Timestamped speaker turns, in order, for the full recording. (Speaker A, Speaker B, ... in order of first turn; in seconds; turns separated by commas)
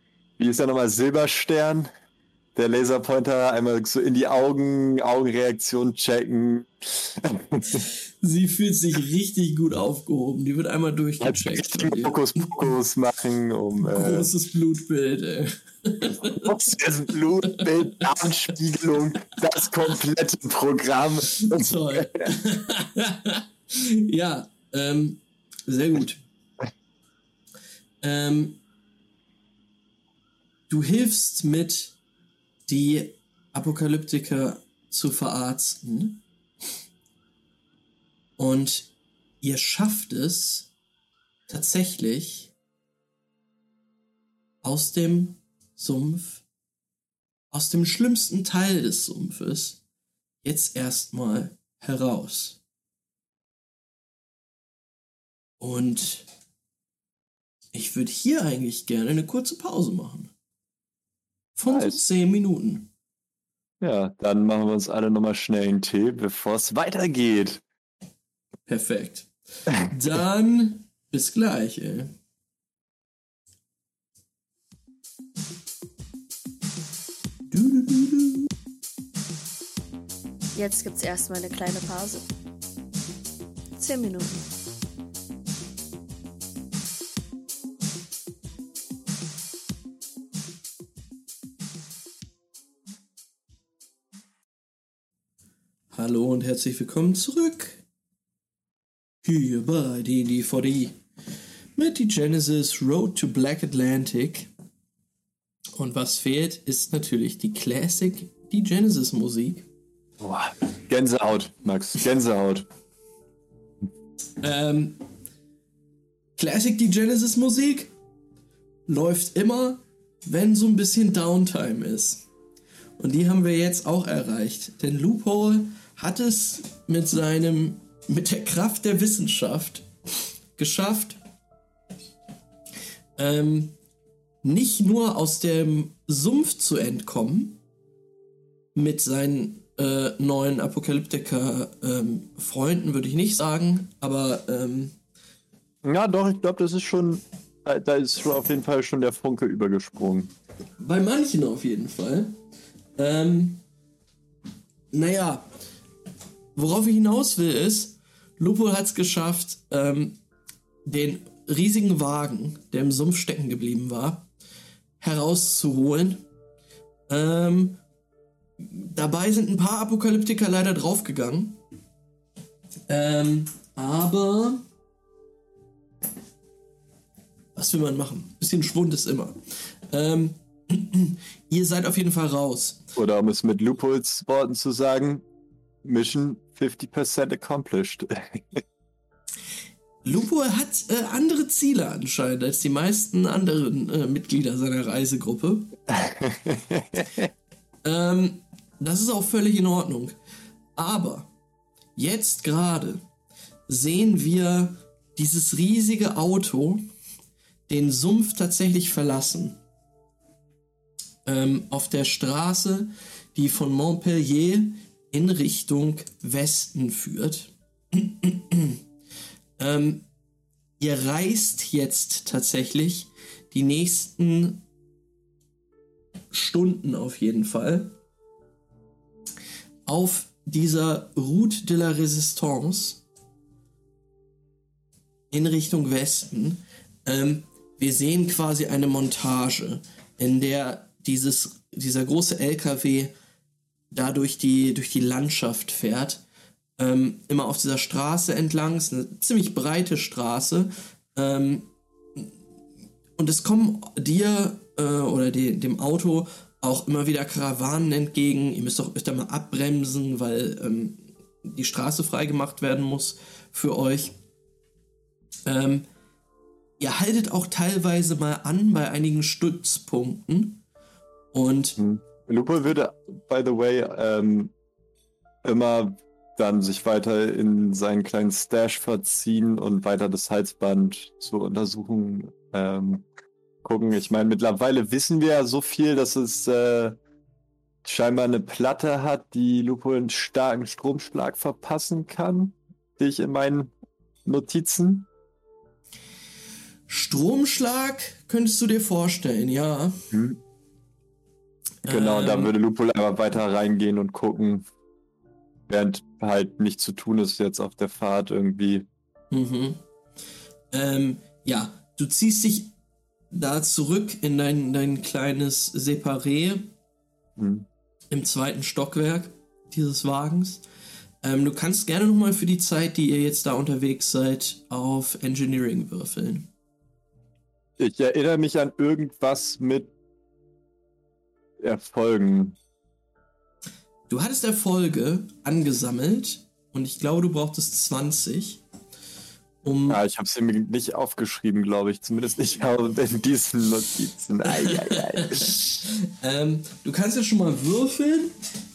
Speaker A: 0.4-1.9, Speaker A: 2.5-7.9, Speaker B: 8.2-12.7, Speaker A: 11.2-14.3, Speaker B: 13.8-16.7, Speaker A: 16.2-22.3, Speaker B: 17.4-18.1, Speaker B: 21.3-26.2, Speaker B: 28.0-28.6, Speaker B: 30.7-32.0, Speaker B: 32.7-36.2, Speaker B: 38.4-40.7, Speaker B: 41.5-42.5, Speaker B: 44.6-46.4, Speaker B: 47.5-49.8, Speaker B: 50.4-52.6, Speaker B: 55.6-56.3, Speaker B: 57.7-60.3, Speaker B: 61.5-62.9, Speaker A: 61.7-62.0, Speaker A: 63.8-67.6, Speaker B: 68.7-69.3, Speaker B: 69.8-72.1, Speaker B: 77.5-78.5, Speaker C: 80.5-82.2, Speaker C: 83.8-84.4, Speaker B: 95.9-97.8, Speaker B: 99.2-101.0, Speaker B: 101.8-104.5, Speaker B: 105.8-109.7, Speaker A: 110.2-112.7, Speaker B: 114.4-115.0, Speaker B: 116.4-117.9, Speaker B: 118.9-122.3, Speaker B: 123.0-129.9, Speaker B: 130.6-131.2, Speaker B: 133.2-133.8, Speaker B: 134.4-137.6, Speaker B: 138.7-144.9, Speaker A: 145.8-150.3, Speaker B: 150.8-152.4, Speaker B: 152.9-153.6, Speaker B: 154.9-155.5, Speaker B: 156.6-160.2, Speaker B: 160.8-164.3, Speaker B: 165.0-166.2, Speaker B: 167.1-167.8, Speaker B: 168.6-171.6, Speaker B: 172.9-174.6, Speaker B: 177.5-182.8, Speaker A: 182.9-185.2, Speaker A: 185.8-188.6, Speaker B: 190.0-195.7, Speaker A: 195.9-197.3, Speaker B: 197.8-200.2, Speaker B: 200.8-201.3, Speaker B: 201.9-203.0, Speaker B: 203.7-206.8, Speaker B: 207.7-209.6, Speaker B: 211.2-218.8, Speaker B: 219.6-220.1, Speaker B: 220.8-224.6, Speaker B: 226.3-227.9, Speaker B: 229.8-233.0, Speaker B: 235.3-243.1, Speaker B: 243.9-246.2, Speaker B: 246.8-252.3, Speaker B: 253.2-264.2, Speaker B: 265.4-265.9, Speaker B: 266.8-270.6, Speaker B: 271.3-271.8, Speaker A: 271.8-274.5, Speaker A: 275.4-283.1, Speaker A: 283.6-287.0, Speaker A: 287.8-293.7, Speaker A: 294.2-295.1, Speaker B: 296.9-300.0, Speaker A: 300.1-300.4, Speaker B: 301.8-302.5, Speaker A: 301.9-304.6, Speaker A: 305.7-308.9, Speaker B: 309.3-309.8, Speaker B: 310.7-312.7, Speaker B: 313.3-316.7, Speaker A: 317.4-317.7, Speaker B: 318.1-320.6, Speaker B: 321.2-326.5, Speaker A: 327.8-329.9, Speaker A: 331.6-332.6, Speaker B: 334.1-338.6, Speaker B: 339.6-340.0, Speaker A: 339.9-345.6, Speaker B: 344.6-348.3